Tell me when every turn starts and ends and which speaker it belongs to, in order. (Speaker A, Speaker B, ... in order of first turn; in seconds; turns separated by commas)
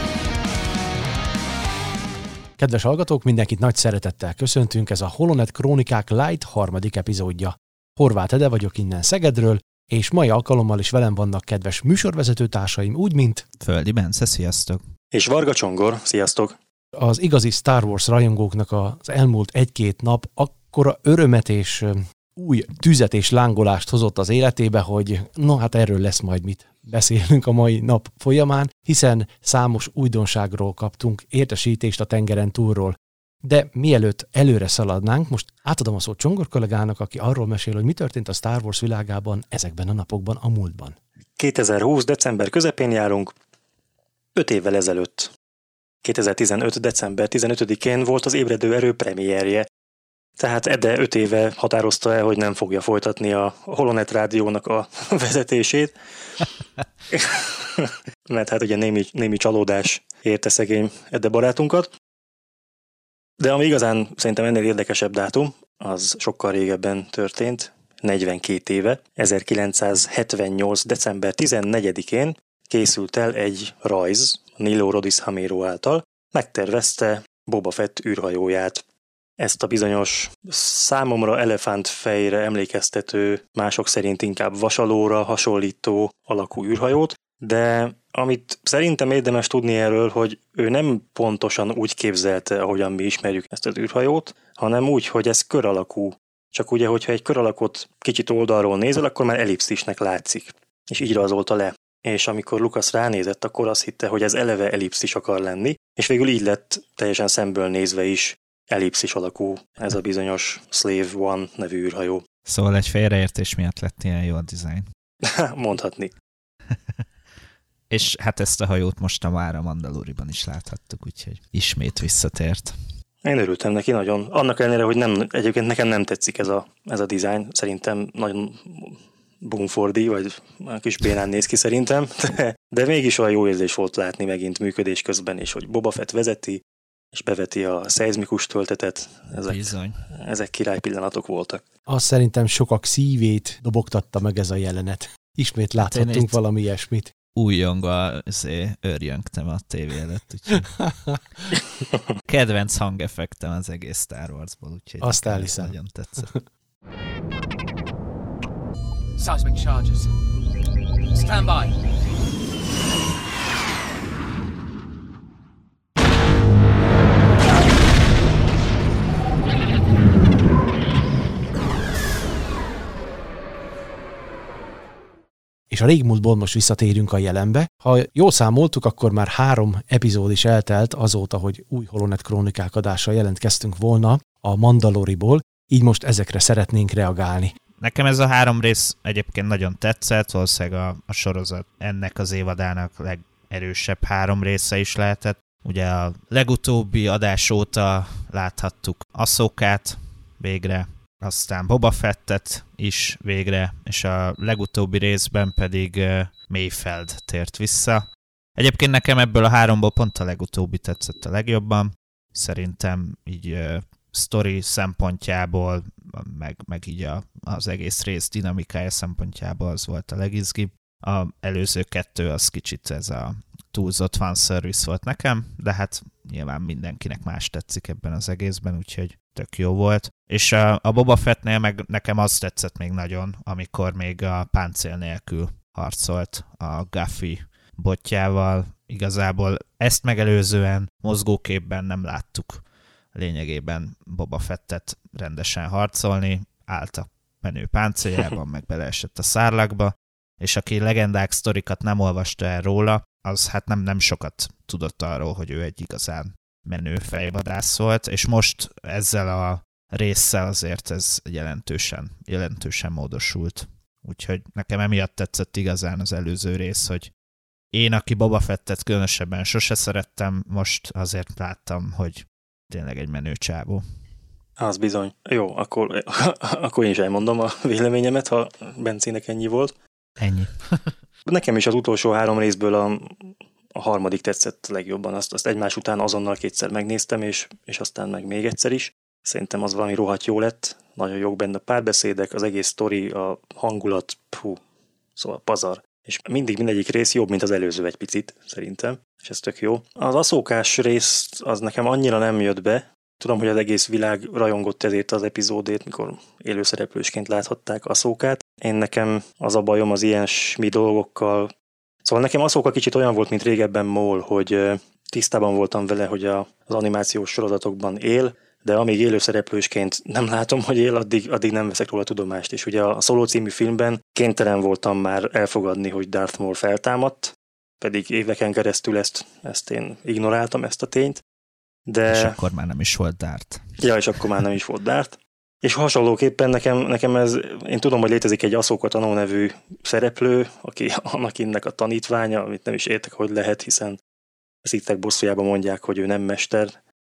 Speaker A: 2.6-13.4, Speaker B: 13.6-14.8, Speaker C: 15.1-16.6, Speaker A: 17.0-40.9, Speaker C: 41.4-43.3, Speaker C: 44.3-45.3, Speaker C: 46.0-49.6, Speaker C: 50.4-56.0, Speaker C: 57.1-61.9, Speaker C: 63.4-78.8, Speaker C: 79.4-112.2, Speaker B: 112.5-114.8, Speaker C: 115.2-116.1, Speaker B: 116.7-117.0, Speaker B: 117.9-122.7, Speaker C: 123.2-136.6, Speaker C: 137.1-141.6, Speaker B: 139.4-140.0, Speaker A: 141.9-147.1, Speaker B: 145.8-146.4, Speaker B: 147.3-150.7, Speaker A: 150.5-151.2, Speaker B: 152.2-156.3, Speaker A: 155.0-156.4, Speaker A: 159.2-160.1, Speaker A: 161.1-161.7, Speaker A: 175.7-187.5, Speaker B: 187.8-208.0, Speaker B: 208.6-242.6, Speaker B: 243.1-267.1, Speaker B: 267.7-273.8, Speaker C: 274.6-279.7, Speaker B: 280.2-280.9, Speaker C: 281.2-294.6, Speaker C: 295.1-311.5, Speaker C: 312.0-331.2, Speaker C: 331.9-332.4, Speaker B: 332.1-333.6, Speaker C: 333.8-344.0, Speaker C: 344.6-346.8